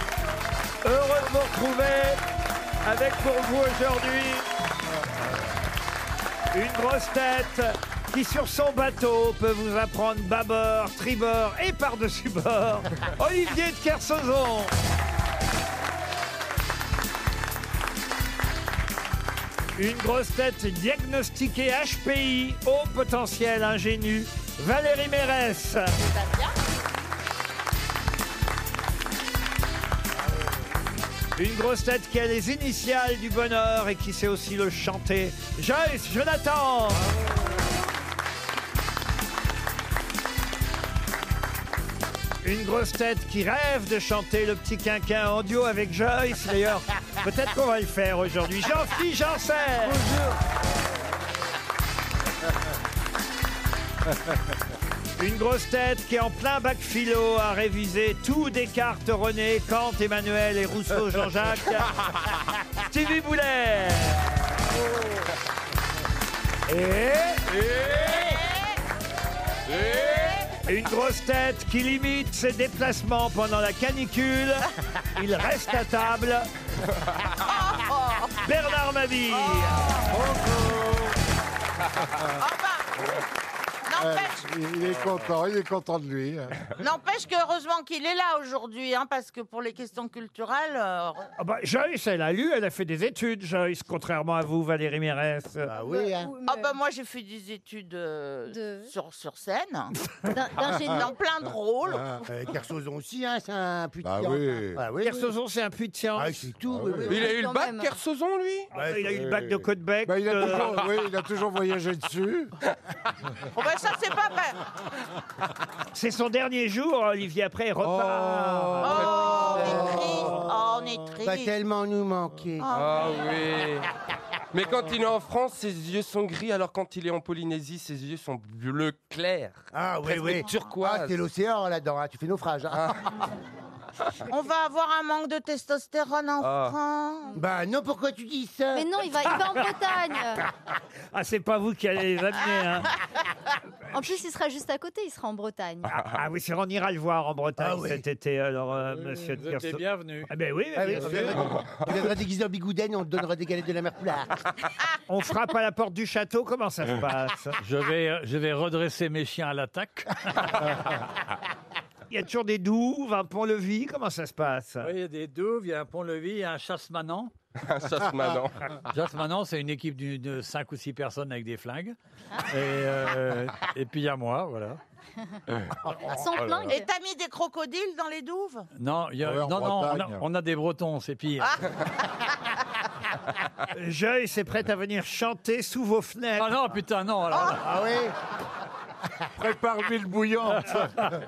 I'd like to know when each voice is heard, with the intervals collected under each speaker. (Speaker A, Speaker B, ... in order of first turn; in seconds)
Speaker A: 0.8-2.2, 2.8-4.5, 6.5-14.7, 19.8-25.9, 31.4-37.0, 42.4-50.0, 55.2-62.0, 62.8-64.2, 66.7-67.5, 70.6-76.5, 78.4-79.9, 91.4-95.7, 105.0-106.5, 108.7-110.7, 115.9-119.2, 141.1-142.9, 145.9-151.6, 155.1-157.6, 162.1-164.9, 183.7-186.5
Speaker B: 26.0-26.5, 68.0-68.8, 69.8-70.4, 77.4-78.4, 79.3-80.2, 82.4-83.0, 83.9-84.5, 86.8-91.3, 96.4-100.0, 100.9-102.1, 113.5-114.6, 118.8-121.5, 122.6-123.2, 134.3-137.4, 176.7-178.7
Speaker C: 69.8-70.3, 107.1-108.7, 122.7-123.9, 124.5-131.2, 136.4-136.8, 167.6-168.8
Speaker D: 80.1-81.1, 84.0-86.7, 104.0-104.8, 106.7-107.2, 109.1-112.5, 118.4-120.3, 176.3-176.8, 179.2-180.2, 189.4-191.2
Speaker E: 95.7-96.3, 102.3-105.3, 106.2-107.3, 108.8-109.1, 119.6-120.3, 121.2-122.7, 129.7-133.0, 137.3-139.1, 147.6-148.0, 150.8-154.4, 187.5-188.2
Speaker F: 95.8-96.7, 98.5-98.9, 100.2-101.1, 107.1-108.0, 138.7-140.4, 143.9-145.9, 175.9-176.9
Speaker G: 149.3-150.3, 157.6-160.6, 164.8-167.3, 168.9-174.8, 178.8-181.6, 186.4-187.6